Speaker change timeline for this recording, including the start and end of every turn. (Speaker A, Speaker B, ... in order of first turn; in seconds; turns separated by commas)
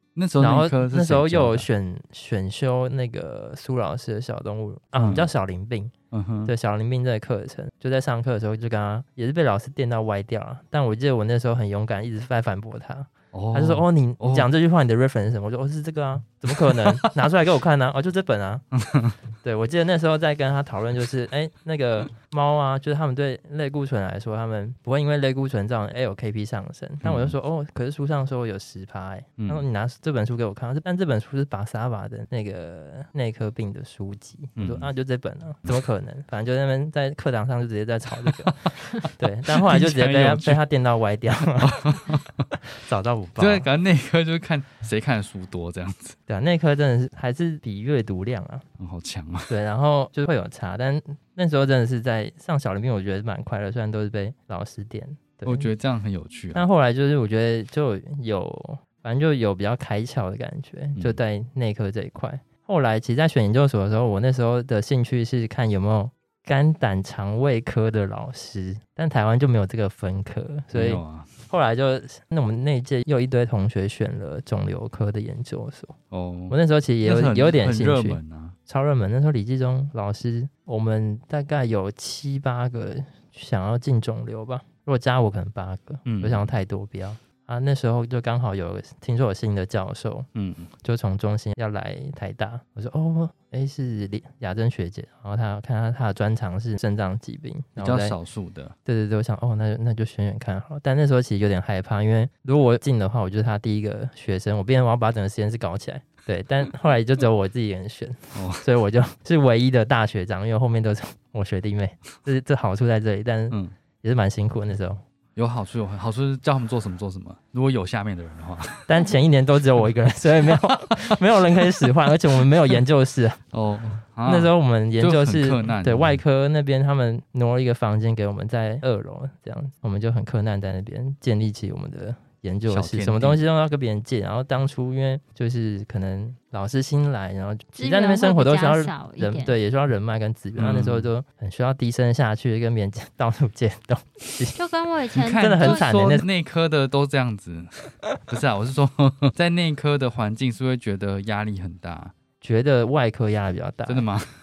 Speaker A: 0.2-1.7, Speaker B: 0.4-5.9, Speaker A: 5.0-5.3, Speaker A: 6.1-6.5, Speaker B: 6.5-18.6, Speaker A: 13.3-14.5, Speaker A: 16.5-17.1, Speaker A: 18.8-19.1, Speaker B: 19.4-42.0, Speaker A: 27.0-27.4, Speaker A: 29.4-29.6, Speaker A: 34.6-34.9, Speaker A: 38.3-40.6, Speaker A: 41.6-42.5, Speaker B: 42.7-43.7, Speaker A: 43.4-46.2, Speaker B: 46.3-48.7, Speaker A: 48.8-49.5, Speaker B: 49.5-55.7, Speaker A: 55.5-56.7, Speaker B: 56.5-76.0, Speaker A: 70.7-71.4, Speaker A: 76.1-78.6, Speaker B: 76.5-90.3, Speaker A: 86.0-86.5, Speaker A: 90.3-90.7, Speaker B: 90.8-98.2, Speaker A: 97.8-98.8, Speaker B: 98.9-115.0, Speaker A: 108.3-108.7, Speaker A: 115.4-119.0, Speaker B: 118.9-123.4, Speaker A: 123.5-126.2, Speaker B: 124.2-144.6, Speaker A: 132.7-133.4, Speaker C: 137.8-139.6, Speaker A: 140.6-141.1, Speaker C: 144.6-145.9, Speaker A: 145.2-152.1, Speaker B: 145.4-146.3, Speaker B: 152.4-154.1, Speaker A: 153.9-154.3